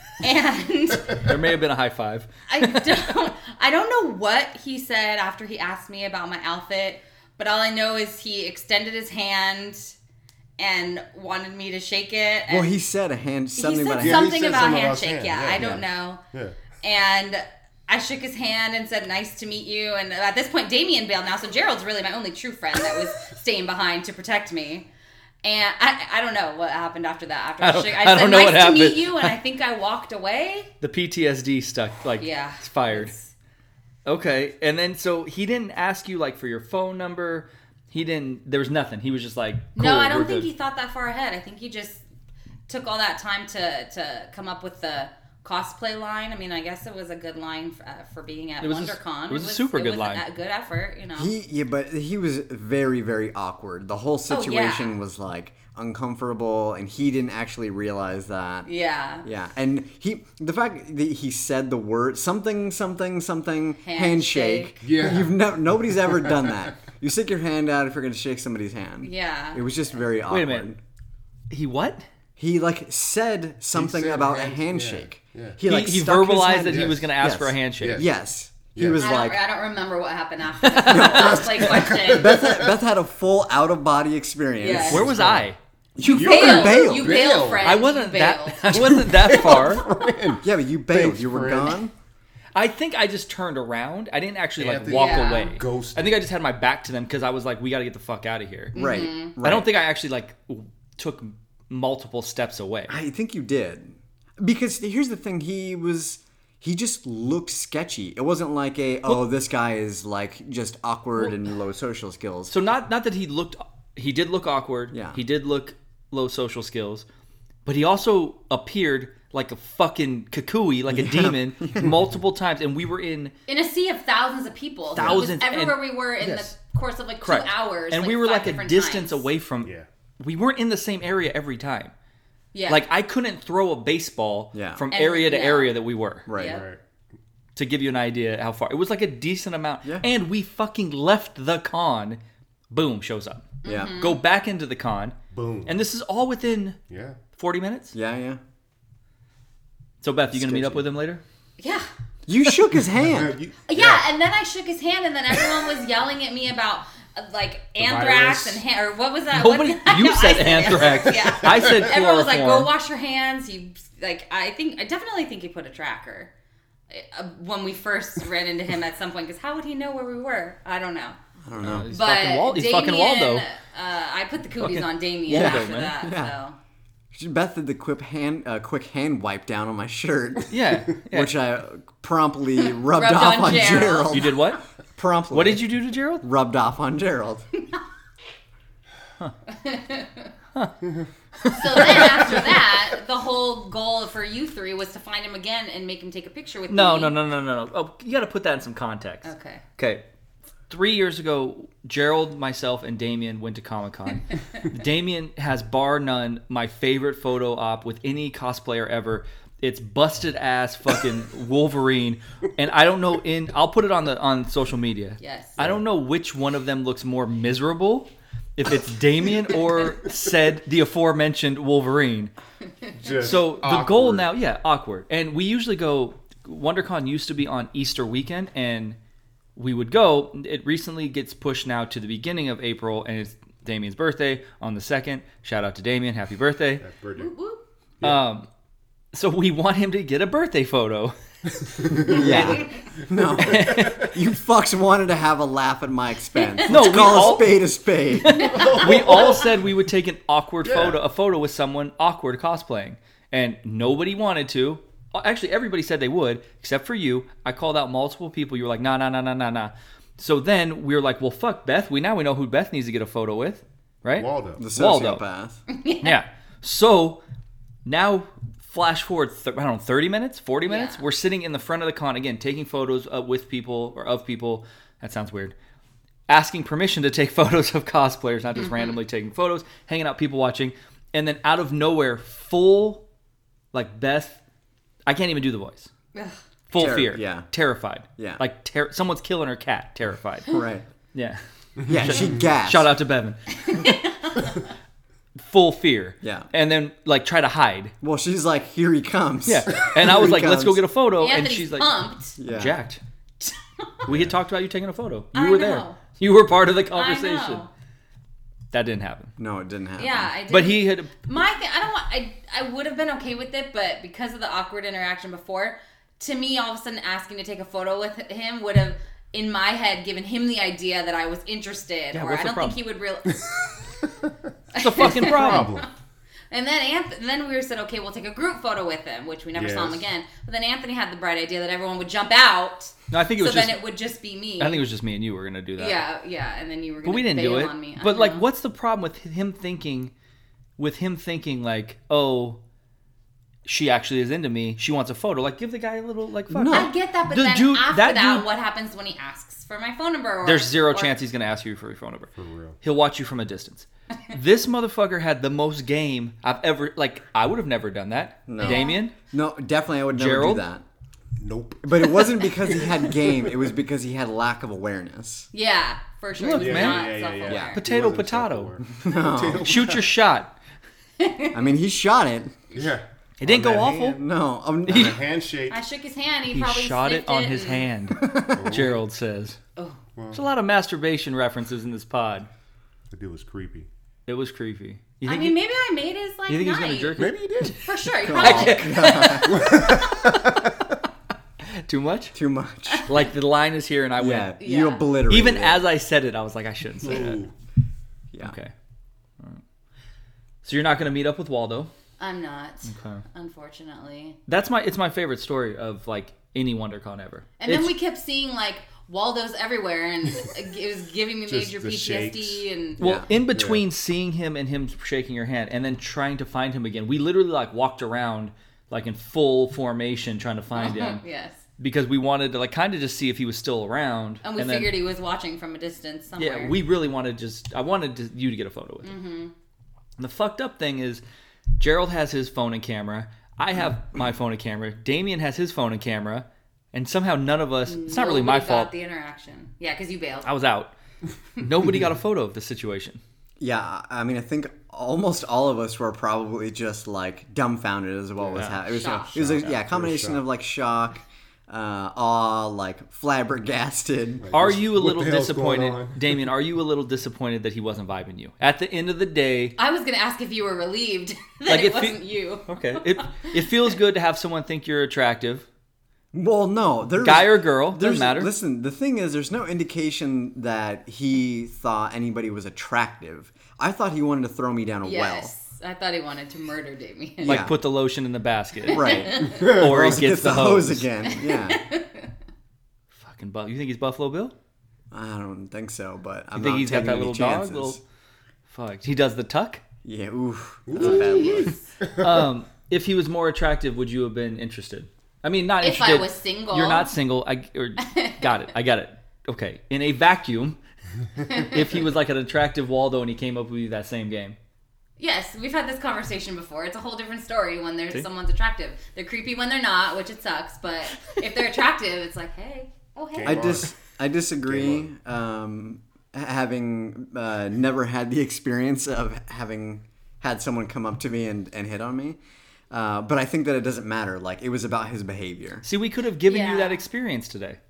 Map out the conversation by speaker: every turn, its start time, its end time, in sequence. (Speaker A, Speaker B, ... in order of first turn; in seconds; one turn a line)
Speaker A: 0.2-1.3
Speaker B: 1.1-2.8
Speaker A: 2.5-9.9
Speaker A: 10.6-12.8
Speaker C: 12.5-14.7
Speaker A: 13.6-16.2
Speaker D: 14.0-16.6
Speaker A: 16.8-24.9
Speaker A: 25.4-30.7
Speaker B: 27.6-29.4
Speaker B: 30.8-33.1
Speaker A: 32.2-33.3
Speaker B: 34.0-40.5
Speaker A: 39.8-42.0
Speaker A: 42.7-51.3
Speaker B: 48.6-50.2
Speaker C: 51.2-58.7
Speaker A: 54.3-55.0
Speaker A: 58.6-59.3
Speaker C: 59.2-70.8
Speaker A: 63.8-64.7
Speaker D: 64.8-66.7
Speaker A: 69.0-69.7
Speaker B: 70.3-70.7
Speaker B: 71.5-72.0
Speaker C: 72.4-79.4
Speaker D: 73.7-75.6
Speaker B: 75.6-78.0
Speaker D: 76.7-77.1
Speaker D: 77.8-78.1
Speaker D: 78.8-79.0
Speaker A: 79.0-82.4
Speaker B: 80.7-81.5
Speaker C: 80.8-85.3
Speaker D: 81.6-82.6
Speaker A: 84.6-85.1
Speaker D: 84.7-85.5
Speaker B: 84.9-85.6
Speaker C: 86.0-87.3
Speaker A: 86.0-88.8
Speaker D: 86.0-87.8
Speaker B: 87.6-89.9
Speaker D: 88.7-91.8
Speaker C: 90.4-91.9
Speaker B: 92.5-98.8
Speaker D: 94.6-96.3
Speaker A: 94.9-95.6
Speaker A: 98.7-99.3
Speaker C: 98.7-99.7
Speaker B: 99.4-102.9
Speaker C: 102.9-112.5
Speaker B: 112.5-117.1
Speaker C: 114.9-115.2
Speaker B: 117.7-123.3
Speaker C: 120.9-121.9
Speaker A: 123.5-129.3
Speaker B: 125.0-126.5
Speaker C: 125.0-125.2
Speaker B: 127.2-131.9
Speaker A: 132.5-132.8
Speaker B: 132.7-136.3
Speaker C: 134.5-134.8
Speaker A: 134.9-135.8
Speaker C: 136.3-136.7
Speaker A: 136.3-136.7
Speaker D: 136.4-136.8
Speaker B: 137.6-142.2
Speaker B: 142.7-146.8
Speaker A: 143.6-144.2
Speaker C: 143.7-144.0
Speaker D: 145.3-145.8
Speaker D: 146.9-147.2
Speaker B: 147.3-147.9
Speaker C: 147.9-148.4
Speaker B: 150.0-151.2
Speaker C: 150.3-150.8
Speaker A: 151.6-151.9
Speaker C: 152.3-153.3
Speaker D: 153.0-154.1
Speaker A: 153.7-166.3
Speaker D: 157.8-158.6
Speaker B: 159.3-162.7
Speaker D: 161.4-161.9
Speaker A: 166.9-171.2
Speaker C: 171.4-171.9
Speaker B: 171.6-173.4
Speaker A: 171.9-176.6
Speaker B: 174.6-175.9
Speaker C: 175.3-176.3
Speaker C: 177.1-184.4
Speaker B: 180.5-181.3
Speaker A: 182.6-184.3
Speaker B: 184.1-184.6
Speaker C: 185.0-185.7
Speaker B: 185.3-186.2
Speaker C: 186.2-187.5
Speaker A: 189.5-190.3
Speaker B: 191.4-192.6
Speaker A: 191.4-197.1
Speaker B: 196.7-200.0
Speaker A: 199.2-199.6
Speaker B: 200.7-222.3
Speaker A: 215.2-215.6
Speaker D: 223.0-224.3
Speaker B: 223.2-229.0
Speaker B: 229.6-236.8
Speaker D: 236.8-237.3
Speaker A: 237.2-237.6
Speaker B: 238.0-238.5
Speaker B: 239.1-241.2
Speaker B: 241.8-242.7
Speaker D: 241.8-242.5
Speaker C: 241.9-248.6
Speaker D: 243.1-244.1
Speaker B: 243.4-244.1
Speaker A: 246.4-246.7
Speaker B: 246.7-247.6
Speaker B: 248.1-265.2
Speaker A: 248.3-249.2
Speaker D: 248.4-249.7
Speaker D: 250.6-251.0
Speaker D: 264.2-264.6
Speaker C: 264.6-265.6
Speaker A: 265.7-266.2
Speaker B: 266.0-267.2
Speaker B: 267.9-275.5
Speaker A: 270.7-271.0
Speaker B: 276.3-283.0
Speaker B: 283.7-284.4
Speaker B: 285.1-285.9
Speaker B: 286.7-290.6
Speaker C: 286.7-287.5
Speaker C: 288.2-288.4
Speaker C: 290.5-290.9
Speaker B: 291.1-293.9
Speaker C: 291.9-292.9
Speaker D: 291.9-292.4
Speaker A: 293.6-294.6
Speaker B: 295.4-297.9
Speaker C: 296.2-296.5
Speaker C: 298.0-300.8
Speaker B: 299.5-303.0
Speaker A: 301.2-302.4
Speaker C: 302.4-302.8
Speaker A: 303.4-304.1
Speaker B: 304.1-307.6
Speaker A: 305.3-306.0
Speaker A: 306.9-307.7
Speaker B: 308.7-309.3
Speaker C: 309.4-310.3
Speaker A: 310.0-323.8
Speaker B: 310.5-311.2
Speaker B: 322.1-322.8
Speaker A: 324.7-325.9
Speaker B: 324.8-325.7
Speaker D: 325.0-325.9
Speaker A: 326.5-334.8
Speaker D: 329.5-330.1
Speaker B: 333.1-333.9
Speaker B: 334.6-336.0
Speaker A: 335.8-338.4
Speaker B: 337.0-340.1
Speaker B: 340.8-342.6
Speaker B: 343.6-348.5
Speaker C: 346.5-346.9
Speaker A: 346.7-351.1
Speaker B: 350.4-359.1
Speaker D: 352.4-352.8
Speaker C: 358.5-360.8
Speaker A: 358.6-359.0
Speaker B: 360.1-360.6
Speaker D: 361.4-363.5
Speaker C: 361.8-365.5
Speaker A: 365.5-367.8
Speaker B: 366.4-368.8
Speaker D: 366.6-370.1
Speaker C: 367.5-367.8
Speaker C: 368.9-369.7
Speaker B: 369.6-370.5
Speaker A: 371.2-371.5
Speaker C: 371.5-372.6
Speaker D: 372.8-373.1
Speaker B: 373.4-374.2
Speaker C: 373.4-375.2
Speaker B: 374.9-375.2
Speaker D: 374.9-375.8
Speaker A: 375.7-377.9
Speaker B: 376.5-379.6
Speaker C: 378.2-378.7
Speaker D: 378.5-379.0
Speaker D: 380.2-380.4
Speaker B: 380.3-382.5
Speaker D: 383.1-383.9
Speaker B: 384.3-385.6
Speaker A: 385.2-389.7
Speaker B: 386.5-387.8
Speaker D: 387.2-387.9
Speaker C: 388.2-389.8
Speaker B: 388.3-389.9
Speaker D: 389.4-390.8
Speaker B: 391.9-392.3
Speaker C: 392.3-393.1
Speaker B: 393.1-394.5
Speaker C: 394.2-395.9
Speaker A: 394.6-395.1
Speaker B: 395.3-397.4
Speaker D: 397.0-397.5
Speaker B: 398.4-398.7
Speaker B: 400.6-401.9
Speaker A: 402.2-404.4
Speaker B: 402.9-403.2
Speaker B: 404.5-407.9
Speaker A: 407.6-413.0
Speaker D: 411.5-412.6
Speaker C: 413.0-413.3
Speaker B: 413.0-421.2
Speaker D: 413.5-413.8
Speaker A: 420.8-421.6
Speaker B: 421.8-424.9
Speaker A: 424.4-426.8
Speaker B: 426.4-429.1
Speaker A: 429.0-429.5
Speaker B: 430.2-431.2
Speaker B: 431.8-438.9
Speaker A: 437.9-440.5
Speaker B: 440.4-440.9
Speaker B: 441.6-443.2
Speaker C: 443.6-454.4
Speaker D: 448.4-448.7
Speaker B: 448.6-448.8
Speaker A: 448.9-449.4
Speaker D: 449.3-450.4
Speaker D: 454.4-456.5
Speaker B: 454.5-459.8
Speaker A: 459.8-463.5
Speaker B: 461.7-465.7
Speaker C: 466.3-475.5
Speaker B: 467.2-468.5
Speaker A: 475.0-477.7
Speaker B: 477.4-481.1
Speaker C: 477.4-477.8
Speaker A: 478.9-479.7
Speaker C: 478.9-481.8
Speaker D: 479.4-479.9
Speaker A: 481.3-482.3
Speaker B: 483.1-484.5
Speaker C: 485.1-488.0
Speaker B: 486.6-488.0
Speaker B: 488.7-489.8
Speaker C: 490.0-491.8
Speaker D: 490.9-492.4
Speaker A: 491.0-491.8
Speaker B: 492.1-500.8
Speaker A: 495.8-497.1
Speaker A: 498.0-498.5
Speaker B: 501.5-504.6
Speaker A: 501.5-501.8
Speaker A: 505.2-513.8
Speaker D: 513.3-513.9
Speaker C: 513.4-522.4
Speaker D: 514.7-515.1
Speaker C: 522.9-525.9
Speaker B: 525.9-527.8
Speaker A: 526.5-527.0